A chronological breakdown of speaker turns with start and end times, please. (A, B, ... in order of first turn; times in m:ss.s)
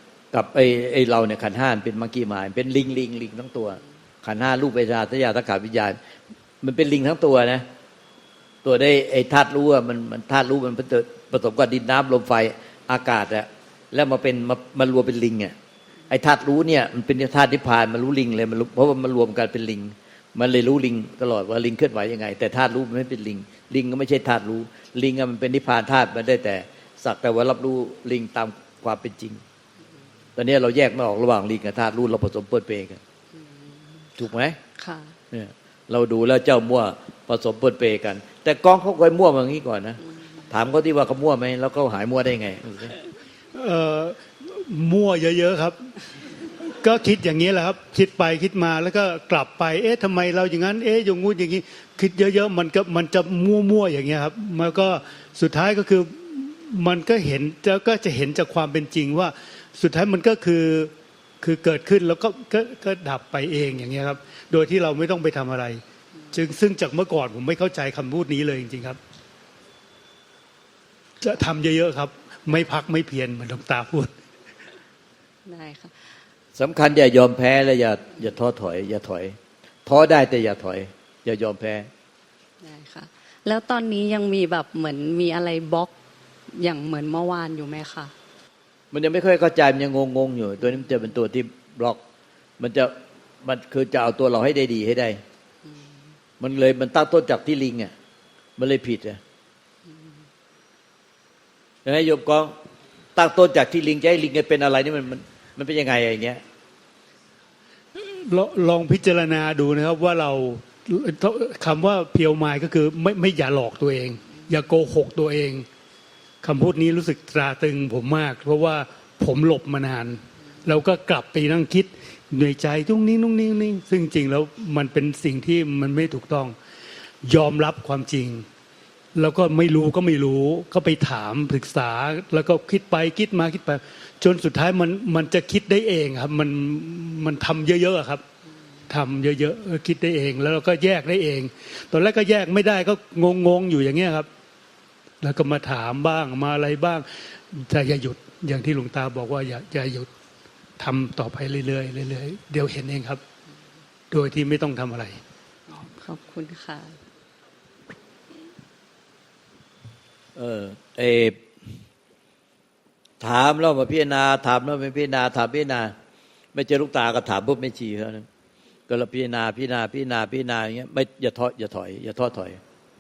0:00.3-0:06.0 A
0:06.6-0:07.6 A
0:08.6-0:15.5 A
0:16.1-0:29.4 A
0:30.4-0:33.0 A
0:33.3-0:35.2 B
0:34.2-0:34.6 A
0:35.3-0:40.0 A
0:40.5-0:43.0 A
0:43.5-0:45.9 C
0:46.6-1:09.0 C
1:11.2-1:14.2 C
1:15.5-1:16.2 B
1:16.6-1:21.9 A
1:22.6-1:25.9 B
1:26.5-1:28.1 B
1:28.9-1:32.0 A
1:32.6-1:32.9 A
1:33.4-1:35.2 A
1:35.6-1:35.9 B
1:36.4-1:37.9 A
1:38.6-1:39.2 A
1:39.9-1:40.2 B
1:41.8-1:42.5 A
1:43.2-1:46.4 A
1:48.0-1:55.7 C
1:56.4-2:06.6 C
2:07.2-2:08.5 C
2:09.2-2:18.2 C
2:18.9-2:24.3 C
2:25.2-2:30.1 C
2:30.8-2:33.2 C
2:34.1-2:35.2 C
2:35.7-2:37.0 B
2:40.4-2:41.4 A
2:43.2-2:45.9 A
2:46.5-2:48.3 A
2:48.9-2:52.6 A